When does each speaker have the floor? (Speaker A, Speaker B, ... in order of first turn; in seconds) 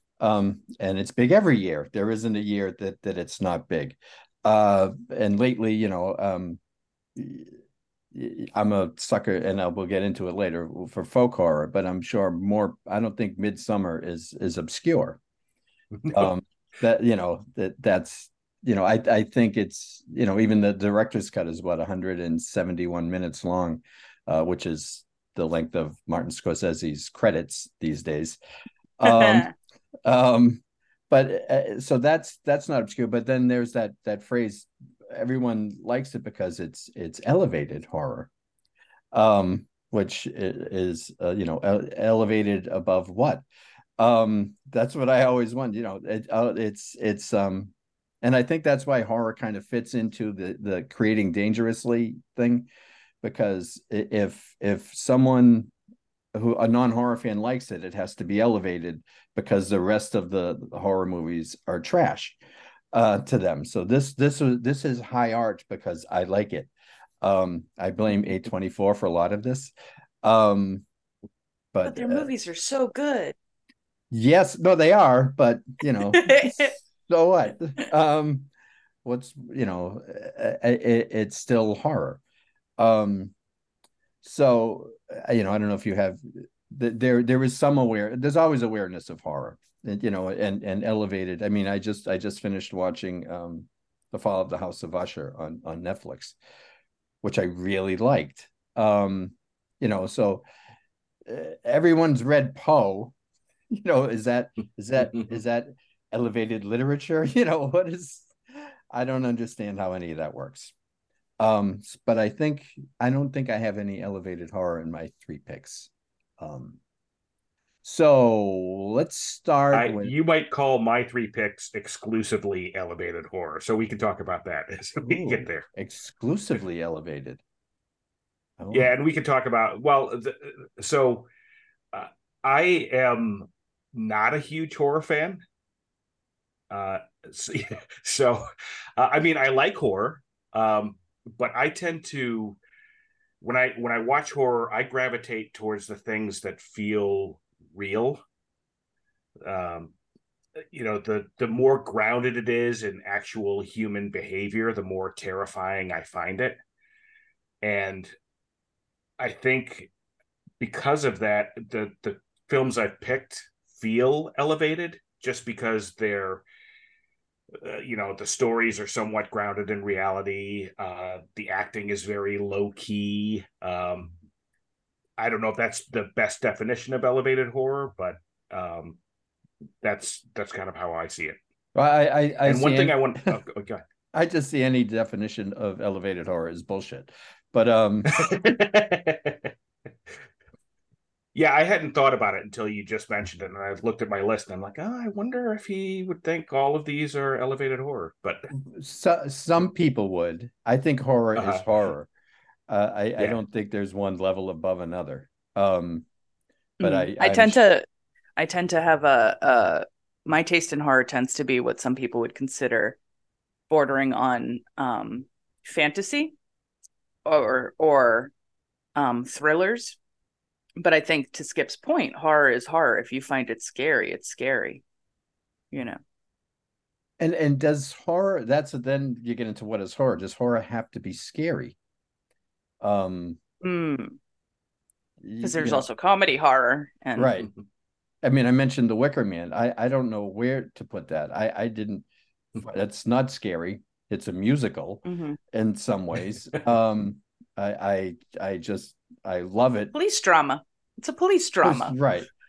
Speaker A: 0.2-6.6, 7.2-7.6, 8.1-15.2, 16.1-28.4, 29.0-29.5, 30.0-38.3, 39.1-43.4, 44.0-52.7, 53.2-55.7, 56.3-62.4, 62.9-66.7, 67.2-70.8, 71.7-72.3, 74.1-78.5, 79.0-82.2, 82.8-83.3, 84.2-96.4, 97.2-100.4, 101.3-103.1, 103.7-108.3, 108.9-110.7, 111.4-116.8, 117.8-120.1, 125.0-127.4, 128.6-128.9, 181.7-183.4, 184.1-188.5, 198.7-202.1, 202.7-206.1, 206.8-207.6, 227.2-231.8, 232.8-233.4, 235.2-235.8, 237.1-237.5, 238.2-242.1, 242.6-249.9, 251.6-252.3
Speaker B: 15.9-16.3, 119.7-125.6, 128.7-131.3, 131.9-135.4, 136.7-142.6, 143.4-148.2, 149.4-149.9, 150.7-156.6, 157.6-158.1, 159.2-159.9, 160.6-166.4, 167.6-174.1, 175.2-179.0, 179.8-181.4, 182.4-183.8, 188.1-189.5, 191.3-198.5, 201.3-201.6
Speaker C: 29.2-29.5, 71.8-73.3, 76.1-76.7, 206.8-207.8, 208.4-213.0, 213.7-216.3, 217.2-218.3, 218.9-220.0, 220.8-224.8, 225.7-226.0, 233.6-234.2, 235.4-237.3, 245.0-245.4, 249.9-252.0